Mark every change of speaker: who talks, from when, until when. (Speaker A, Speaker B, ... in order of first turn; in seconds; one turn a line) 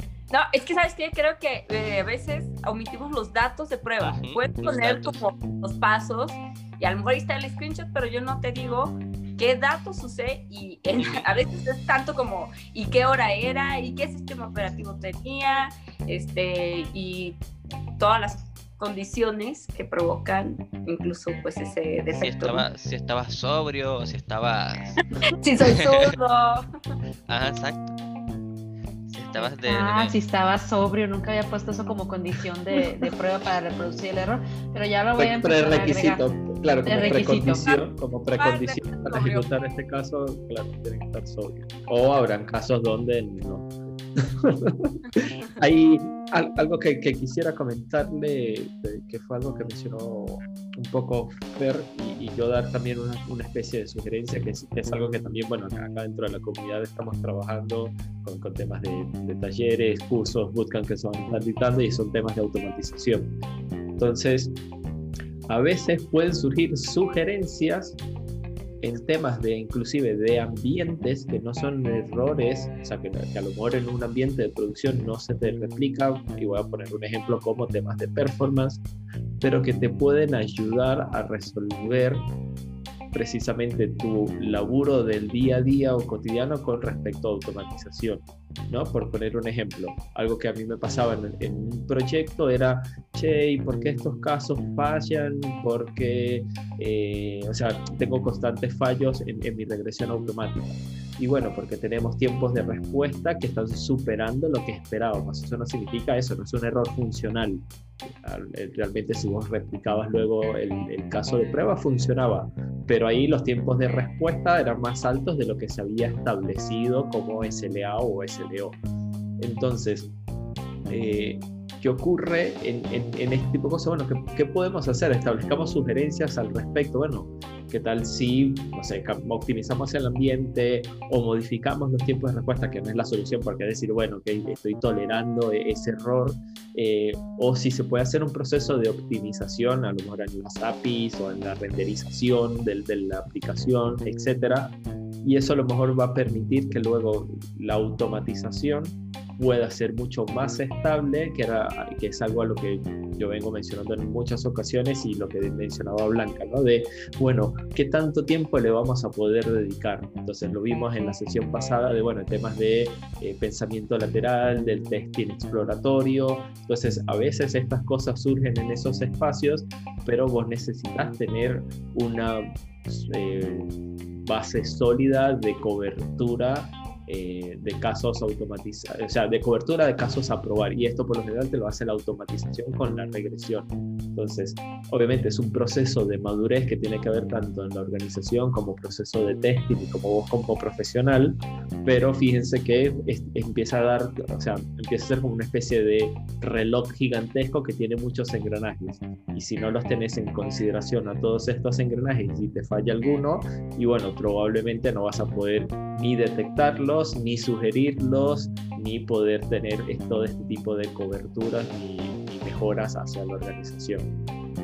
Speaker A: 0.3-17.4
Speaker B: 4.0-5.2
Speaker B: 11.0-11.2
Speaker A: 18.0-22.6
Speaker B: 22.1-25.0
Speaker A: 25.3-26.6
Speaker B: 25.7-26.1
Speaker B: 27.3-27.9
Speaker B: 29.1-30.1
Speaker C: 29.4-36.2
Speaker D: 35.2-63.3
Speaker C: 36.8-37.8
Speaker A: 38.4-39.5
Speaker D: 64.0-64.5
Speaker D: 65.5-68.0
Speaker D: 68.8-78.8
Speaker D: 79.4-82.3
Speaker D: 83.1-118.8
Speaker D: 119.4-120.1
Speaker D: 120.9-173.7
Speaker D: 174.2-214.1